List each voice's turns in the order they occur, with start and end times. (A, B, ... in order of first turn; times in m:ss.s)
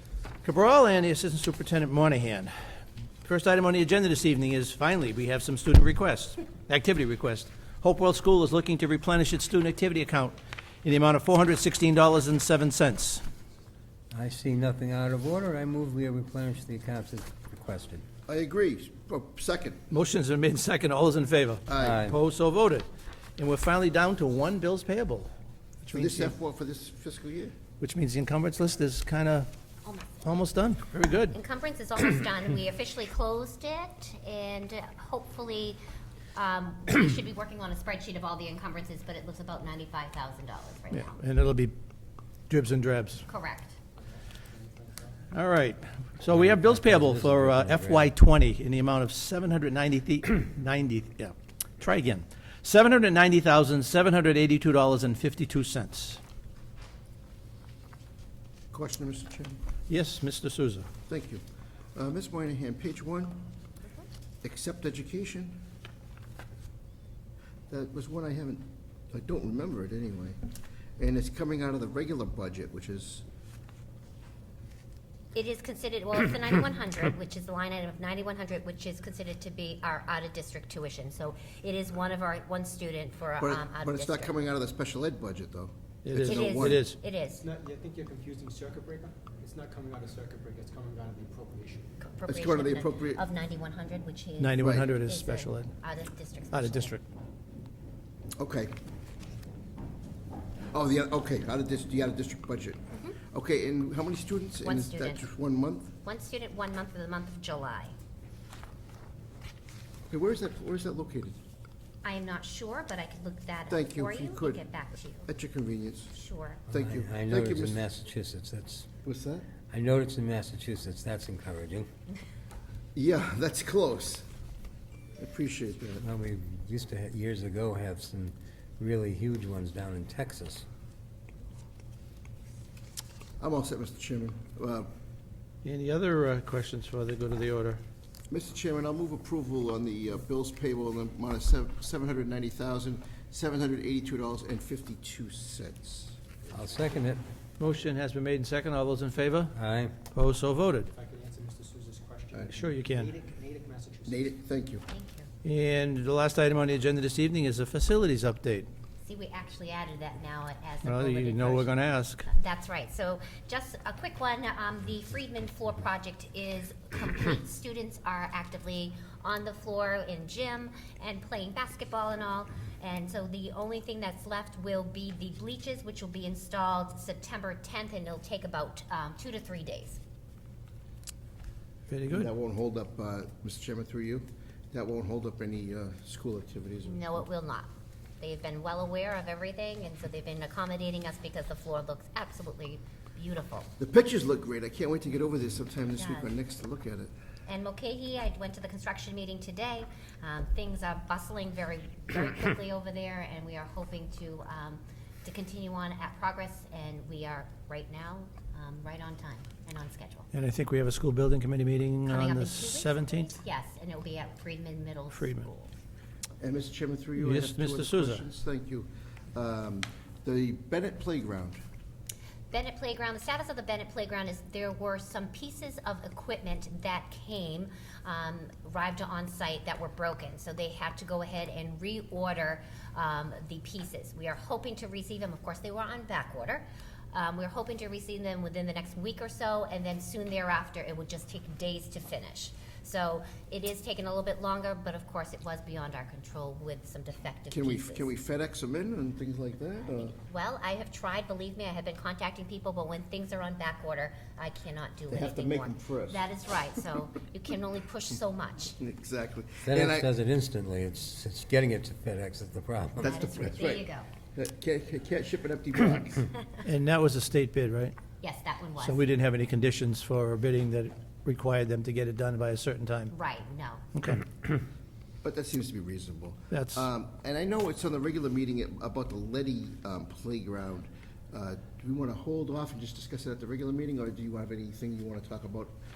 0:00.4-0:02.5 A
0:03.2-0:13.2 A
0:14.1-0:18.0 B
0:18.3-0:19.9 C
0:19.9-0:22.9 A
0:21.7-0:22.0 C
0:21.8-0:22.2 B
0:23.4-0:25.3 A
0:25.8-0:26.3 A
0:25.9-0:27.5 C
0:27.8-0:29.5 A
0:29.8-0:30.3 D
0:30.2-0:31.4 A
0:31.3-0:35.8 D
0:36.3-0:41.2 D
0:40.9-0:41.7 A
0:42.5-0:43.2 A
0:43.3-0:43.8 D
0:44.0-0:45.2 E
0:45.3-0:56.2 A
0:46.3-0:48.1 B
0:58.7-0:59.6 C
0:59.9-1:00.9 A
1:01.1-1:01.4 C
1:01.9-1:03.4 C
1:04.4-1:05.6 C
1:07.7-1:10.4 C
1:11.0-1:13.2 C
1:15.3-1:24.4 D
1:23.4-1:26.8 C
1:26.0-1:27.0 A
1:26.2-1:27.5 D
1:27.4-1:32.0 E
1:32.1-1:36.9 D
1:32.3-1:33.2 C
1:34.4-1:35.7 A
1:34.6-1:34.9 C
1:36.5-1:37.0 A
1:38.4-1:38.7 C
1:40.7-1:45.9 C
1:44.6-1:45.3 D
1:46.0-1:47.9 D
1:50.1-1:51.4 C
1:52.0-1:55.3 D
1:53.7-1:54.6 C
1:55.3-1:56.1 C
1:56.1-1:56.6 D
1:56.7-1:57.8 C
1:56.7-1:58.9 B
1:59.0-1:59.4 C
1:59.7-2:01.9 B
2:02.9-2:04.2 C
2:05.2-2:06.0 C
2:06.0-2:10.6 B
2:13.4-2:14.9 C
2:15.6-2:17.8 A
2:18.3-2:26.2 C
2:26.5-2:27.2 B
2:27.6-2:29.5 A
2:29.5-2:30.0 B
2:30.1-2:30.9 A
2:30.9-2:34.4 E
2:32.6-2:33.1 A
2:34.1-2:34.8 C
2:34.9-2:35.3 D
2:35.4-2:38.7 A
2:39.0-2:41.7 D
2:40.8-2:42.3 A
2:42.2-3:00.0 D
3:01.9-3:02.3 A
3:02.1-3:07.2 C
3:06.8-3:13.7 D
3:13.8-3:17.1 C
3:16.0-3:16.3 D
3:17.4-3:30.3 D
3:30.3-3:33.3 A
3:32.1-3:35.7 D
3:35.1-3:35.4 A
3:36.4-3:41.6 C
3:37.2-3:38.2 A
3:42.5-4:08.1 D
4:07.5-4:10.2 C
4:10.2-4:18.8 D
4:15.1-4:16.2 C
4:18.8-4:20.1 C
4:19.6-4:23.2 B
4:23.0-4:26.3 C
4:23.0-4:24.1 D
4:26.6-4:27.9 A
4:28.2-4:29.1 D
4:28.8-4:33.1 A
4:33.1-4:33.8 D
4:33.9-4:34.2 A
4:35.2-4:45.7 C
4:36.5-4:36.9 A